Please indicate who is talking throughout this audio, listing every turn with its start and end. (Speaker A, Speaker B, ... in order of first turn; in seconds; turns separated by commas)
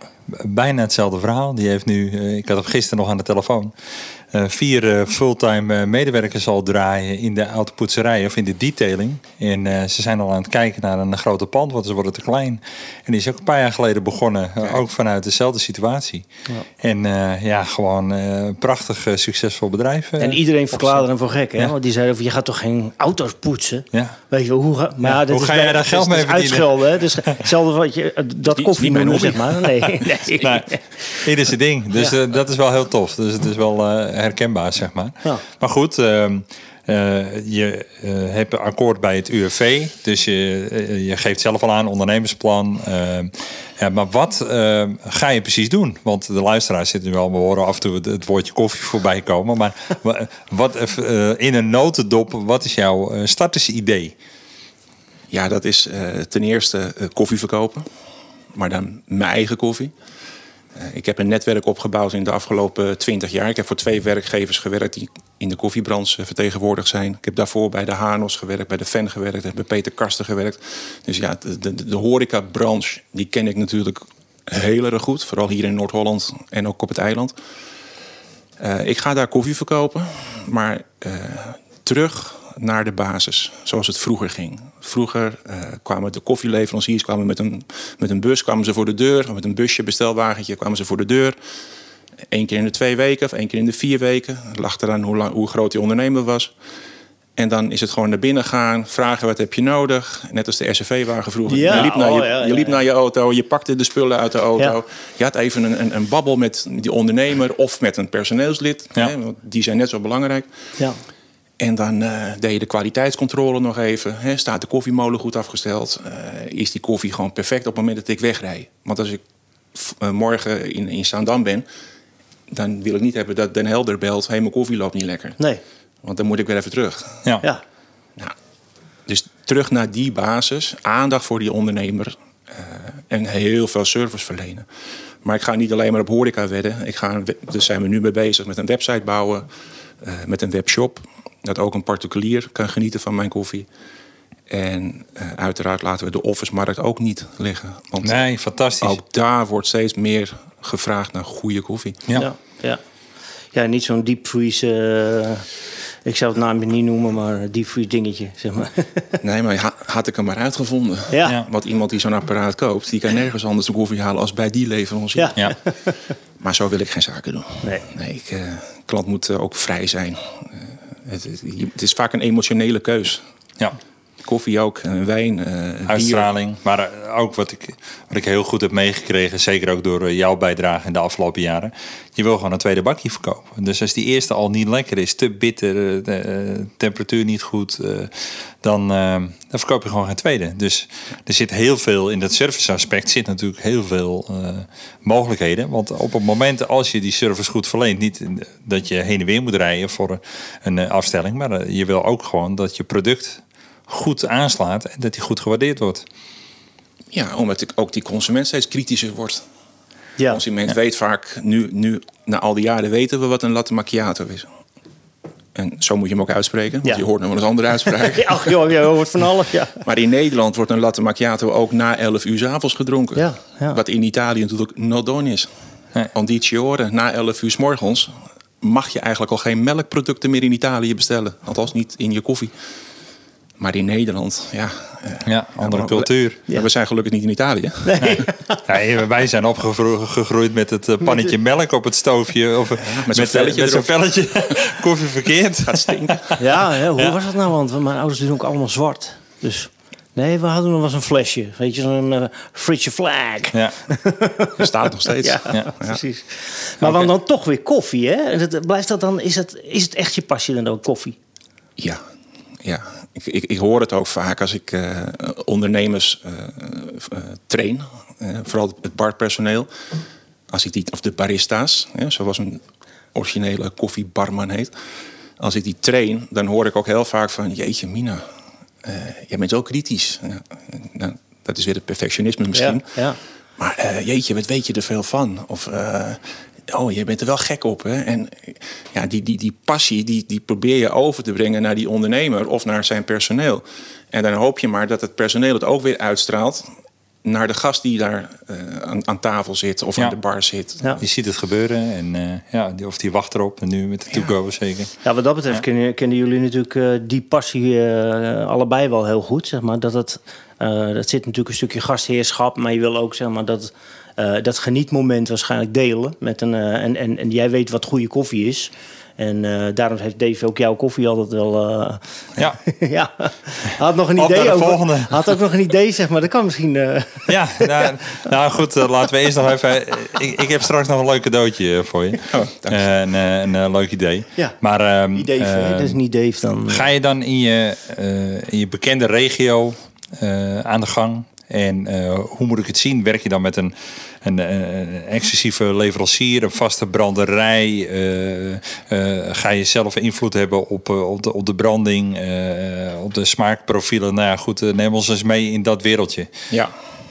Speaker A: 0.3-3.7, Speaker A: 4.3-16.2, Speaker A: 16.8-21.0, Speaker B: 20.2-30.8, Speaker A: 23.9-24.2, Speaker A: 25.0-27.0, Speaker C: 28.5-29.6, Speaker A: 30.4-54.1, Speaker C: 55.3-57.9, Speaker C: 58.5-59.9, Speaker C: 60.7-77.3, Speaker C: 78.6-91.3, Speaker C: 92.3-96.5, Speaker C: 97.3-110.5, Speaker B: 101.5-102.8, Speaker C: 111.6-119.2, Speaker C: 119.7-121.7, Speaker C: 122.5-125.4, Speaker C: 126.0-127.2, Speaker C: 129.1-134.7, Speaker C: 135.2-139.5, Speaker C: 140.0-143.7, Speaker C: 144.5-148.2, Speaker A: 148.0-149.0, Speaker C: 148.8-152.1, Speaker B: 152.1-152.8, Speaker B: 153.5-155.4, Speaker B: 156.0-159.2, Speaker C: 159.2-165.4, Speaker B: 161.1-161.3, Speaker B: 165.1-165.9, Speaker C: 166.4-173.2, Speaker C: 174.2-176.3, Speaker A: 175.9-206.0, Speaker C: 207.1-209.4, Speaker C: 210.2-214.5, Speaker C: 215.5-218.5, Speaker B: 217.9-219.8, Speaker C: 219.8-225.5, Speaker B: 223.1-223.8, Speaker C: 226.1-232.5, Speaker C: 233.6-238.2, Speaker A: 235.2-236.4, Speaker B: 237.8-238.6, Speaker A: 238.7-246.4, Speaker B: 241.0-241.3, Speaker C: 242.8-243.9, Speaker C: 245.6-246.4, Speaker B: 246.4-261.2, Speaker C: 254.6-256.0, Speaker A: 256.8-257.1, Speaker C: 261.8-262.0, Speaker C: 262.6-269.7, Speaker C: 270.5-272.6, Speaker C: 273.1-274.7, Speaker C: 275.4-278.2, Speaker C: 278.8-283.0, Speaker B: 282.5-283.2, Speaker C: 283.6-296.7, Speaker C: 297.2-301.0, Speaker A: 301.0-305.0, Speaker B: 305.0-327.9, Speaker A: 324.1-325.3, Speaker A: 327.3-336.0, Speaker C: 332.3-332.9, Speaker B: 335.1-336.9, Speaker A: 336.7-356.3